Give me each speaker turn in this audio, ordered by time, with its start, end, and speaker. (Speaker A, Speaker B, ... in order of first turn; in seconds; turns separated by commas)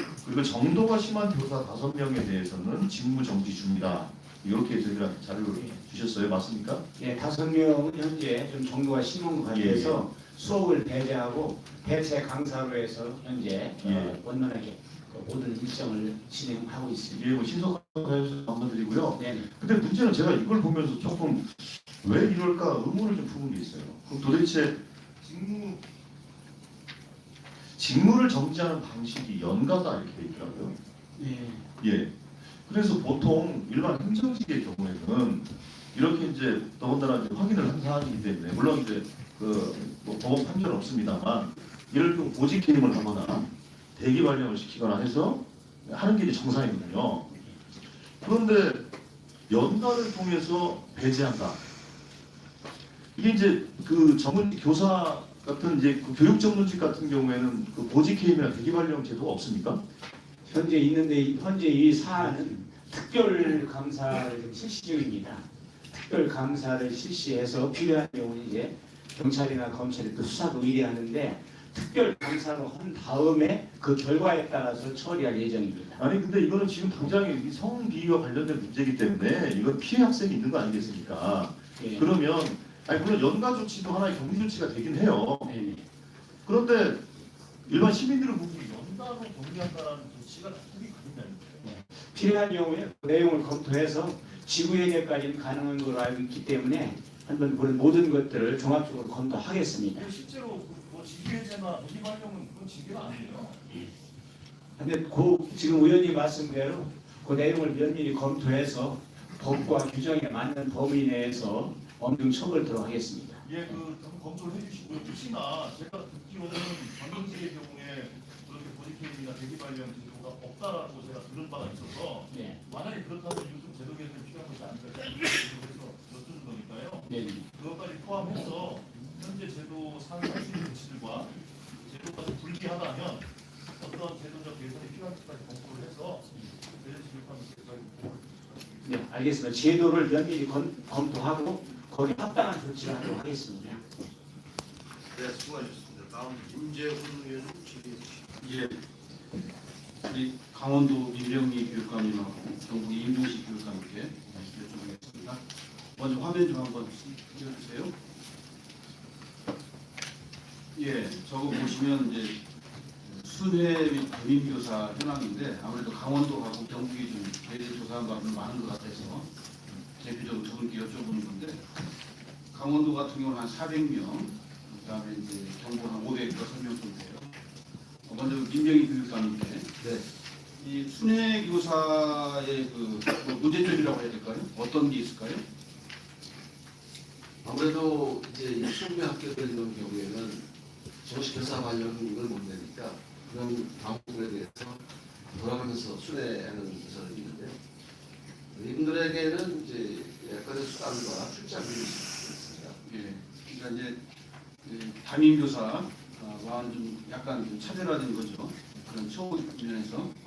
Speaker A: 0.2-6.9, Speaker B: 7.0-17.2, Speaker A: 9.5-10.1, Speaker A: 13.8-14.2, Speaker A: 17.1-25.8, Speaker B: 19.2-19.4, Speaker A: 27.8-30.8, Speaker B: 31.2-31.6, Speaker A: 31.8-32.1, Speaker A: 32.6-47.3, Speaker A: 48.2-48.9, Speaker A: 49.5-51.6, Speaker A: 53.1-59.8, Speaker B: 60.5-76.0, Speaker A: 76.0-85.5, Speaker B: 85.5-85.8, Speaker A: 86.5-87.1, Speaker A: 87.7-91.7, Speaker B: 91.7-100.0, Speaker A: 100.0-103.7, Speaker B: 104.8-113.4, Speaker A: 113.4-138.4, Speaker B: 127.1-127.4, Speaker B: 138.8-143.8, Speaker C: 145.2-148.1, Speaker D: 148.4-148.8, Speaker D: 150.1-155.4, Speaker D: 156.0-157.9, Speaker D: 160.8-162.4, Speaker D: 163.0-169.3, Speaker D: 170.0-171.6, Speaker D: 172.5-177.3, Speaker D: 178.1-179.7, Speaker E: 179.8-180.1, Speaker D: 180.6-185.4, Speaker E: 187.4-190.4, Speaker E: 191.0-197.6, Speaker E: 198.5-202.8, Speaker D: 202.8-204.0, Speaker D: 204.6-210.1